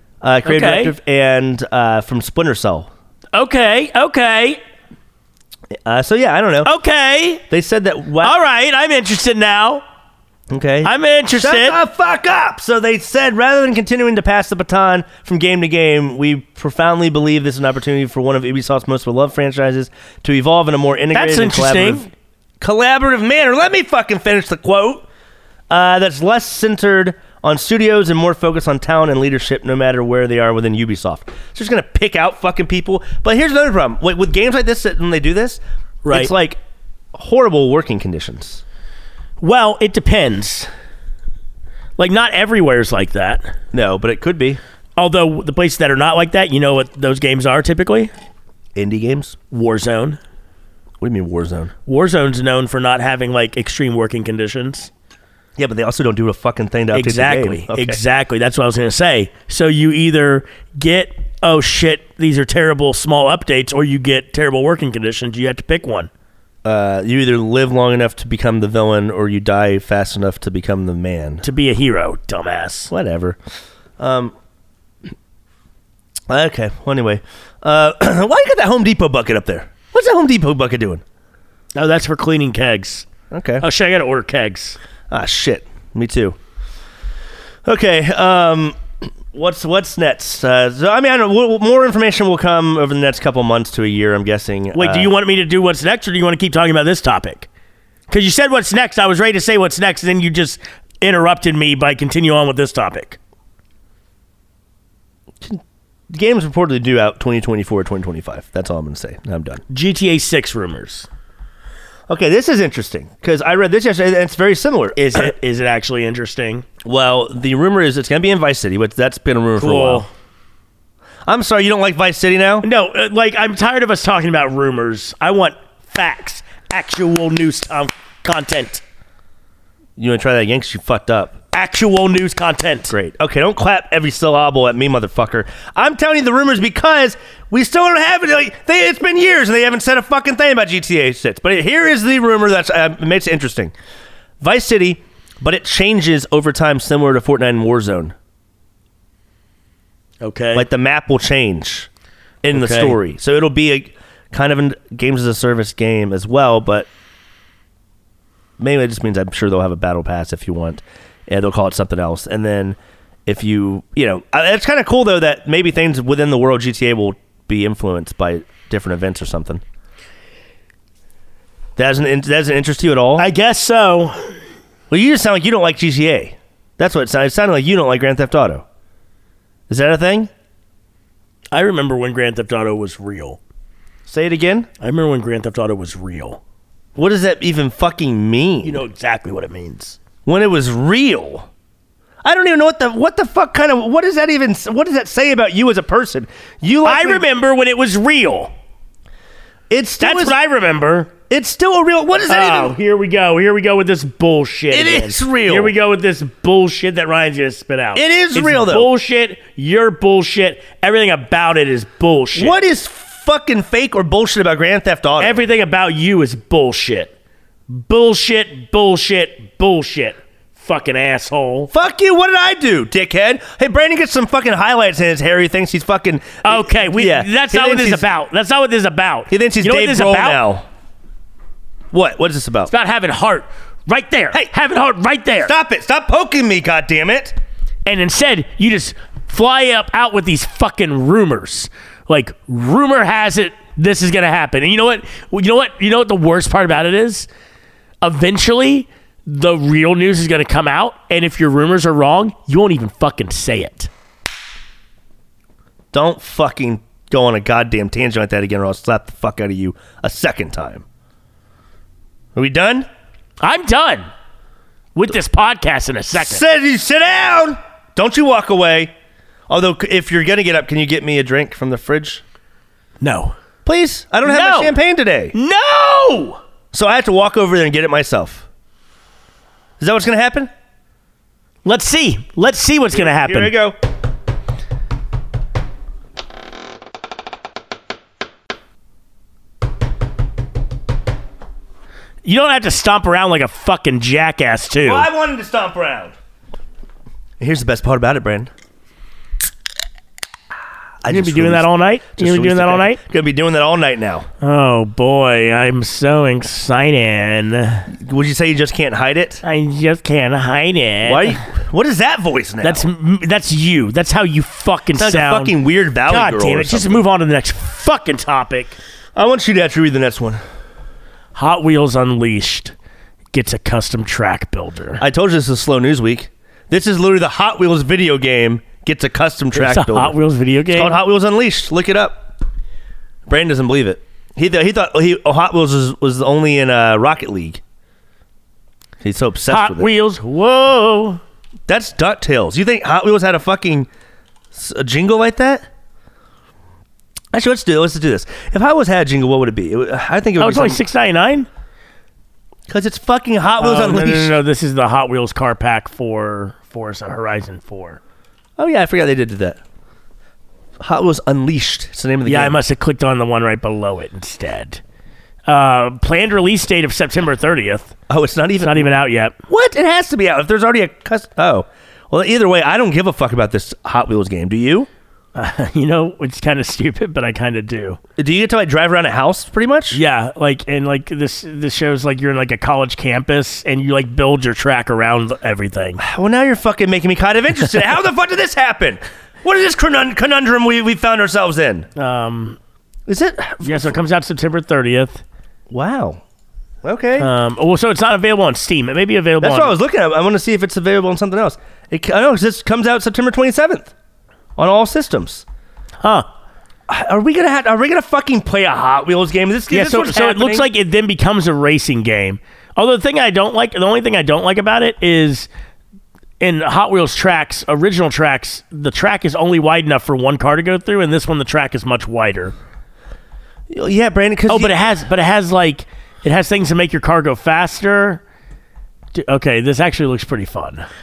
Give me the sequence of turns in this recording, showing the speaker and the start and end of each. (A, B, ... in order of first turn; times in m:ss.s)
0:00.2-0:02.9 A
0:00.4-0:00.9 B
0:03.3-0:04.6 B
0:05.8-0:06.7 A
0:06.6-0:07.4 B
0:07.5-0:08.4 A
0:08.2-0:09.8 B
0:10.5-0:22.1 A
0:10.8-0:11.8 B
0:21.1-0:22.1 B
0:22.6-0:25.0 A
0:25.7-0:36.6 A
0:36.0-0:36.3 B
0:37.1-0:38.6 A
0:39.4-0:40.7 B
0:42.0-0:43.5 B
0:43.7-0:44.6 A
0:45.0-0:48.1 B
0:48.7-0:49.4 A
0:49.5-0:50.2 B
0:51.0-0:51.7 A
0:51.8-0:54.9 B
0:55.6-0:58.0 A
0:56.9-1:06.1 B
1:06.6-1:11.4 A
1:11.4-1:12.9 B
1:12.9-1:13.4 A
1:14.0-1:14.3 A
1:16.3-1:21.0 A
1:21.7-1:23.0 B
1:23.3-1:23.6 A
1:23.6-1:24.8 B
1:25.1-1:26.4 A
1:27.6-1:35.1 A
1:34.7-1:37.5 B
1:38.1-1:43.2 B
1:45.4-1:49.6 A
1:49.7-1:51.1 B
1:52.1-1:55.3 A
1:55.0-1:56.6 B
1:56.8-2:00.0 A
1:59.6-2:00.1 B
2:01.3-2:02.7 A
2:02.6-2:08.8 B
2:10.0-2:11.4 A
2:11.5-2:12.9 B
2:12.9-2:23.7 A
2:24.4-2:28.1 A
2:30.2-2:30.6 B
2:30.5-2:31.9 A
2:32.4-2:36.9 A
2:32.5-2:33.0 B
2:38.6-2:49.6 A
2:51.8-2:53.3 A
2:53.2-2:54.3 B
2:54.9-2:58.6 A
2:59.7-3:00.3 A
3:01.5-3:03.4 B
3:04.1-3:04.7 A
3:04.8-3:06.4 B
3:07.0-3:08.8 A
3:08.6-3:10.0 B
3:10.2-3:11.5 A
3:12.2-3:17.2 A
3:16.8-3:18.5 B
3:19.7-3:20.4 A
3:20.0-3:21.1 B
3:21.3-3:22.7 A
3:22.3-3:32.6 B
3:24.7-3:25.7 A
3:27.9-3:28.9 A
3:32.3-3:35.4 A
3:35.2-3:37.1 B
3:37.7-3:41.7 B
3:41.7-3:48.0 A
3:46.4-3:50.4 B
3:49.3-3:50.6 A
3:51.9-3:52.7 A
3:52.7-3:55.5 B
3:55.4-3:57.4 A
3:57.8-4:07.3 B
4:08.0-4:13.9 B
4:15.9-4:20.8 A
4:22.3-4:22.9 A
4:23.4-4:24.0 B
4:24.9-4:26.4 B
4:26.1-4:28.9 A
4:29.5-4:32.2 A
4:33.0-4:33.3 B
4:33.6-4:35.3 A
4:34.2-4:34.8 B
4:35.3-4:36.4 B
4:36.7-4:38.4 A
4:39.8-4:40.5 A
4:41.6-4:43.5 B
4:42.9-4:43.8 A
4:52.2-4:55.1 B
4:54.8-4:56.1 A
4:57.4-4:58.5 A
5:01.0-5:04.3 A
5:01.1-5:03.0 B
5:04.4-5:07.9 B
5:07.9-5:09.4 A
5:09.4-5:11.4 B
5:11.0-5:12.9 A
5:12.6-5:15.5 B
5:15.0-5:17.0 A
5:16.1-5:18.8 B
5:19.1-5:20.4 A
5:21.3-5:22.7 B
5:23.3-5:25.0 B
5:25.0-5:30.2 A
5:29.5-5:31.0 B
5:30.7-5:32.3 A
5:33.3-5:37.6 A
5:39.0-5:39.9 A
5:39.5-5:41.2 B
5:41.7-5:43.9 A
5:44.5-5:45.6 A
5:47.3-5:50.8 A
5:50.4-5:51.5 B
5:52.7-5:54.4 A
5:53.6-5:58.0 B
5:58.6-5:59.6 A
6:00.8-6:02.6 A
6:02.2-6:04.8 B
6:05.5-6:07.9 B
6:08.1-6:08.9 A
6:08.6-6:09.3 B
6:09.5-6:14.9 A
6:15.3-6:18.0 B
6:18.2-6:20.0 A
6:19.9-6:26.0 B
6:26.0-6:31.9 A
6:32.0-6:32.6 B
6:33.1-6:33.9 A
6:33.6-6:35.2 B
6:35.7-6:36.2 A
6:36.8-6:37.3 A
6:37.2-6:39.7 B
6:39.4-6:43.9 A
6:44.6-6:45.4 A
6:46.0-6:46.3 B
6:46.9-6:50.7 A
6:49.7-6:55.5 B
6:56.4-7:02.5 B
7:03.7-7:04.7 A
7:04.5-7:08.2 B
7:09.1-7:10.9 B